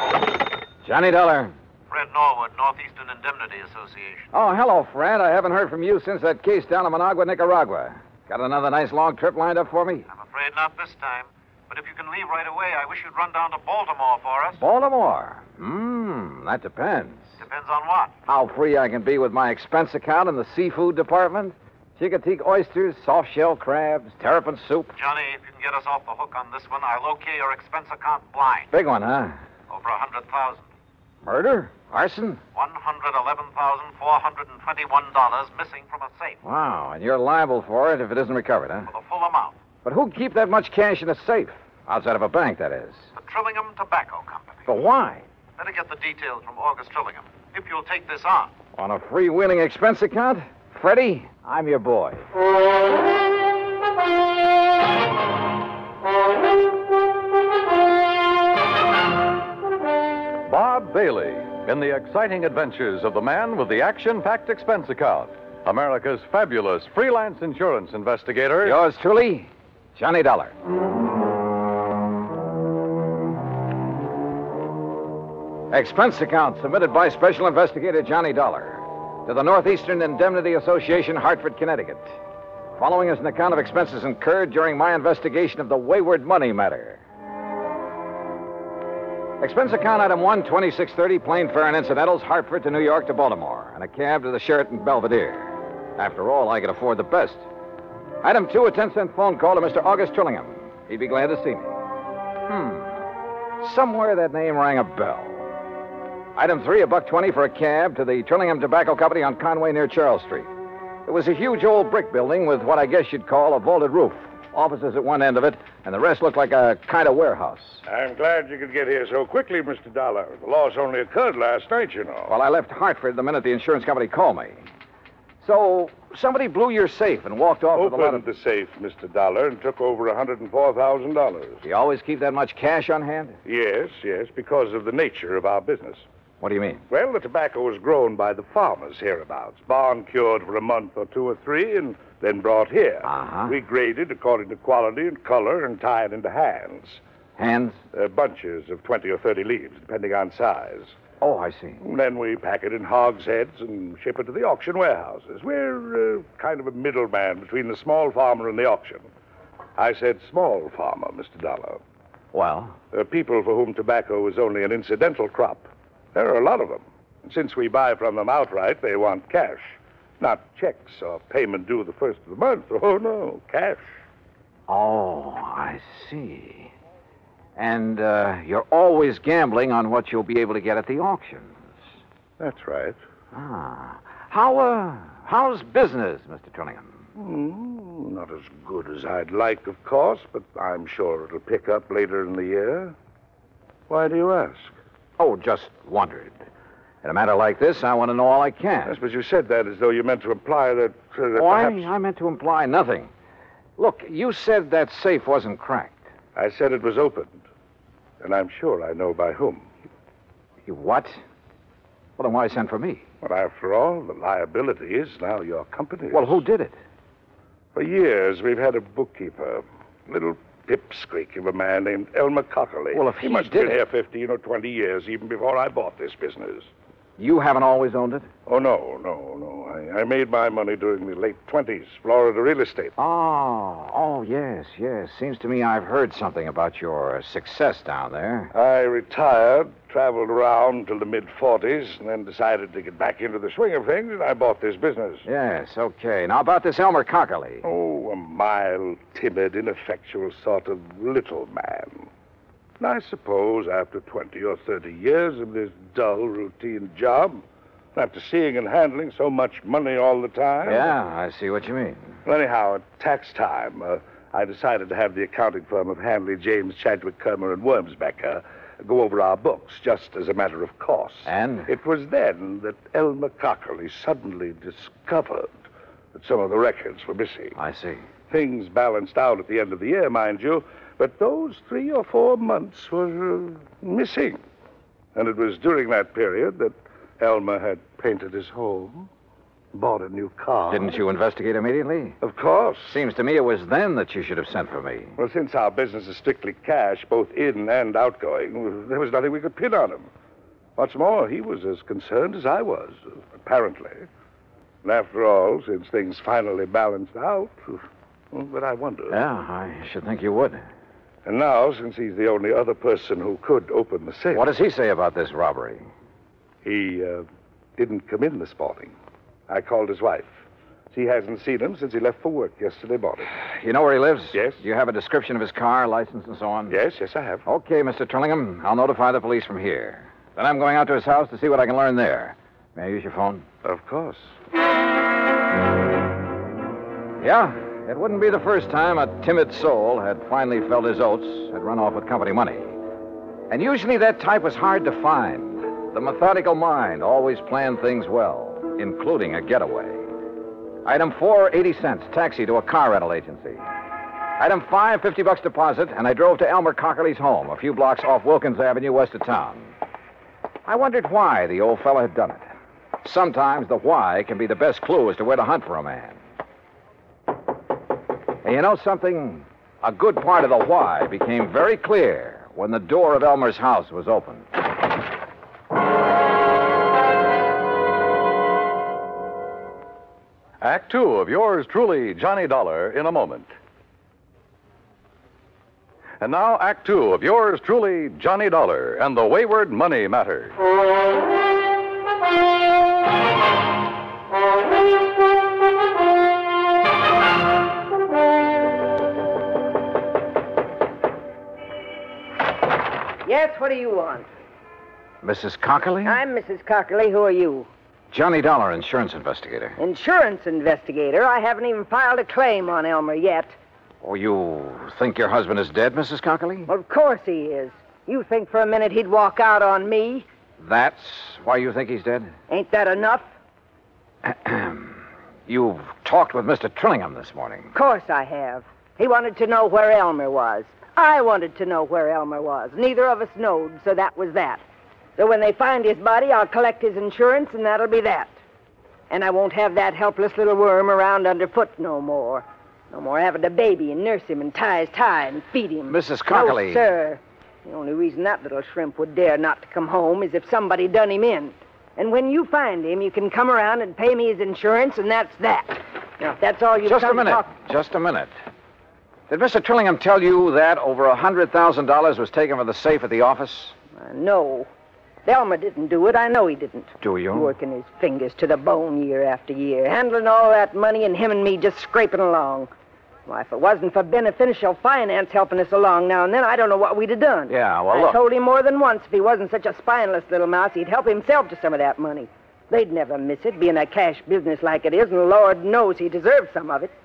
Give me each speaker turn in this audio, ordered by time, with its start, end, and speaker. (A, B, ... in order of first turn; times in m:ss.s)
0:00.8-0:01.5 A
0:01.9-0:04.3 B
0:04.3-0:10.1 A
0:10.1-0:14.6 B
0:14.6-0:17.4 A
0:17.4-0:18.1 B
0:18.3-0:25.0 A
0:25.0-0:28.7 B
0:28.7-0:29.4 A
0:29.7-0:30.7 B
0:31.2-0:32.4 A
0:32.6-0:36.4 B
0:36.4-0:38.9 A
0:38.9-0:39.6 B
0:39.8-0:43.1 A
0:43.2-0:44.7 B
0:44.7-0:45.2 A
0:45.6-0:48.5 B
0:48.8-0:52.2 A
1:00.5-1:08.8 C
1:08.6-1:10.5 A
1:15.7-1:22.1 A
1:22.8-1:27.0 A
1:29.4-1:37.5 A
1:38.2-1:41.8 A
1:42.5-1:43.0 A
1:43.6-1:45.5 A
1:46.4-1:50.5 A
1:51.1-1:57.8 A
1:57.9-2:02.3 D
2:02.3-2:04.6 A
2:05.4-2:08.2 A
2:07.8-2:11.6 D
2:11.6-2:13.4 A
2:13.5-2:16.0 D
2:16.4-2:16.8 A
2:16.9-2:27.0 D
2:23.0-2:23.6 A
2:27.4-2:27.8 A
2:27.9-2:31.0 D
2:31.2-2:31.8 A
2:31.8-2:39.1 D
2:39.8-2:41.8 D
2:42.3-2:42.8 A
2:42.9-2:54.0 D
2:54.7-2:56.7 A
2:57.6-3:01.6 A
3:02.4-3:03.0 D
3:03.3-3:06.9 A
3:07.2-3:13.0 D
3:13.9-3:14.7 D
3:15.2-3:16.3 A
3:17.0-3:19.0 A
3:18.9-3:21.9 D
3:21.4-3:23.1 A
3:23.8-3:26.0 A
3:26.4-3:27.4 D
3:28.2-3:29.7 D
3:30.7-3:31.2 A
3:32.2-3:33.0 A
3:33.2-3:36.4 D
3:36.1-3:36.8 A
3:37.7-3:46.7 D
3:42.9-3:43.8 A
3:47.2-3:48.3 A
3:48.5-3:52.9 D
3:53.0-3:58.5 A
3:58.5-4:05.2 D
4:05.3-4:07.6 A
4:07.6-4:12.1 D
4:12.8-4:17.4 D
4:18.0-4:20.9 D
4:20.7-4:22.2 A
4:22.3-4:35.5 D
4:31.3-4:31.7 A
4:36.1-4:37.6 D
4:37.6-4:38.0 A
4:38.3-4:44.4 D
4:45.2-4:49.1 D
4:49.7-4:51.0 D
4:50.7-4:52.2 A
4:52.2-4:53.0 D
4:52.9-4:55.1 A
4:55.2-5:00.1 D
5:00.8-5:04.1 D
5:04.8-5:09.2 D
5:09.1-5:10.6 A
5:11.3-5:14.5 D
5:14.3-5:15.8 A
5:16.6-5:17.3 D
5:17.8-5:18.9 D
5:19.5-5:20.3 D
5:20.9-5:23.3 D
5:23.5-5:26.8 A
5:24.3-5:24.6 D
5:26.7-5:27.4 D
5:27.5-5:33.4 A
5:33.6-5:34.3 D
5:37.2-5:42.8 A
5:43.5-5:50.1 A
5:50.8-5:53.7 A
5:54.4-5:59.7 A
6:00.7-6:02.5 A
6:03.0-6:06.2 A
6:08.4-6:14.5 A
6:20.6-6:23.5 C
6:26.2-6:30.5 C
6:43.2-6:44.3 E
6:45.2-6:46.2 A
6:46.0-6:47.7 E
6:48.1-6:49.8 A
6:49.8-6:53.6 E
6:54.0-6:56.7 A
6:56.7-7:00.3 E
7:00.6-7:02.3 A
7:02.5-7:03.3 E
7:04.2-7:07.7 A
7:07.7-7:14.6 E
7:15.2-7:18.4 E
7:19.1-7:37.5 E
7:25.9-7:26.8 A
7:36.8-7:38.3 A
7:39.3-7:43.8 A
7:44.0-7:44.7 E
7:45.2-7:52.7 E
7:47.0-7:47.5 A
7:53.3-8:06.9 E
7:57.5-7:58.2 A